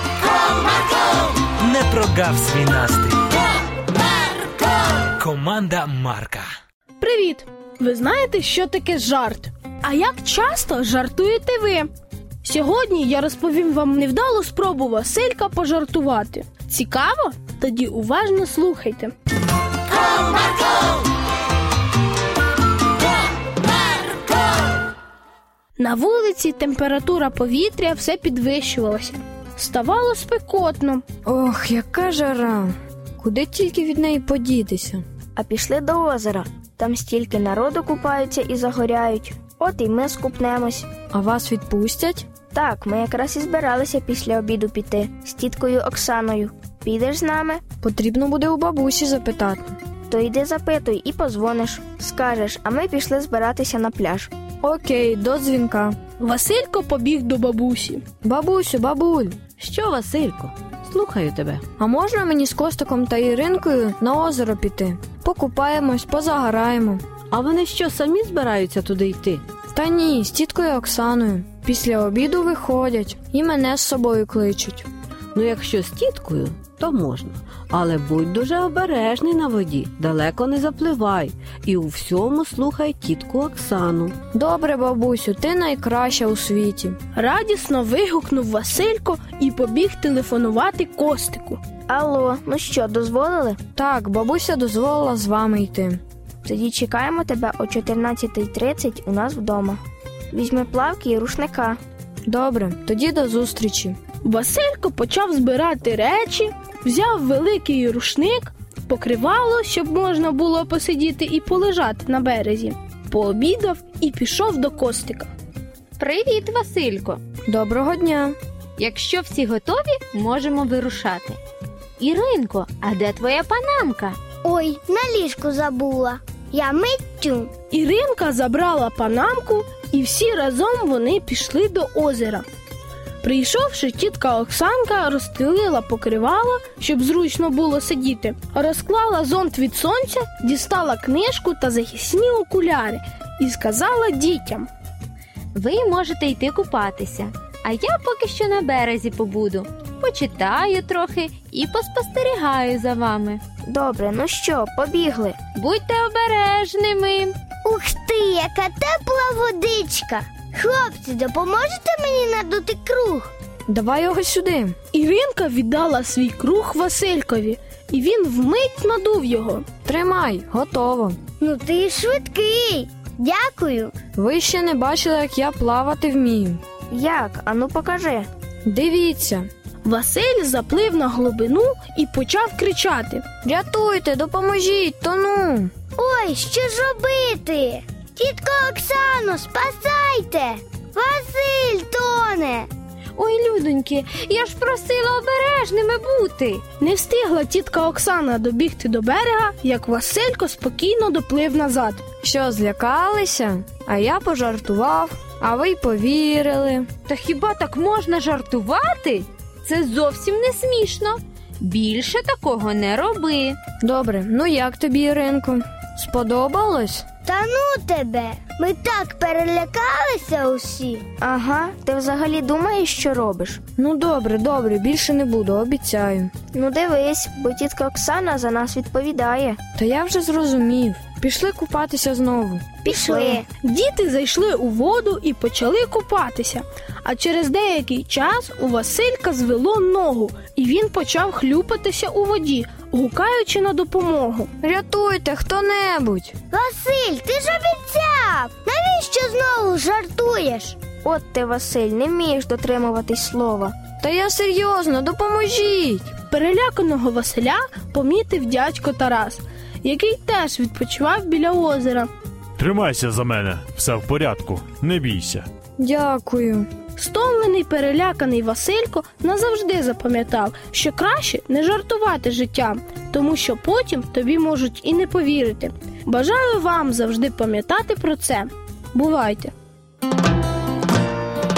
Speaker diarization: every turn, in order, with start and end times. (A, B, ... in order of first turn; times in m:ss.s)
0:01.6-0:03.3 A
0:05.2-0:06.5 A
0:07.0-0:11.9 B
0:12.4-0:19.1 B
0:25.8-0:31.0 B
0:31.3-0:35.0 C
0:35.4-0:40.9 D
0:41.1-0:42.2 C
0:42.5-0:47.6 D
0:47.8-0:49.8 C
0:50.1-0:54.3 D
0:54.6-0:56.0 C
0:56.2-0:58.0 B
0:58.2-0:59.4 C
0:59.6-1:01.6 E
1:01.8-1:07.0 C
1:07.3-1:09.4 E
1:09.7-1:14.9 C
1:15.3-1:24.2 E
1:24.3-1:27.0 C
1:27.2-1:31.6 B
1:31.9-1:33.6 D
1:33.8-1:36.0 C
1:36.4-1:39.8 D
1:40.3-1:41.8 D
1:42.3-1:44.0 C
1:44.2-1:55.3 B
1:56.0-1:57.2 F
1:57.5-1:58.4 C
1:58.8-2:01.4 F
2:02.0-2:04.2 F
2:04.4-2:07.5 G
2:07.7-2:12.5 B
2:13.2-2:24.7 B
2:25.5-2:33.4 F
2:33.7-2:35.4 D
2:35.6-2:37.4 F
2:37.6-2:43.3 G
2:43.7-2:44.8 C
2:44.9-2:49.6 B
2:49.8-2:51.2 C
2:51.4-2:53.9 G
2:54.2-2:56.6 C
2:56.9-2:58.3 D
2:58.7-2:59.5 C
2:59.8-3:03.2 B
3:03.4-3:05.7 C
3:06.0-3:12.7 G
3:13.2-3:16.6 F
3:16.8-3:22.0 B
3:22.2-3:26.9 C
3:27.1-3:33.6 F
3:33.8-3:37.0 C
3:37.2-3:41.0 G
3:41.2-3:43.6 D
3:43.8-3:46.3 C
3:46.5-3:49.6 D
3:49.8-3:52.7 C
3:52.8-3:53.4 D
3:52.9-3:53.5 G
3:53.6-4:04.5 B
4:04.6-4:06.3 C
4:06.5-4:10.8 G
4:11.0-4:13.8 D
4:14.0-4:16.1 C
4:16.3-4:22.1 B
4:22.6-4:25.5 H
4:25.8-4:26.7 C
4:27.0-4:39.5 B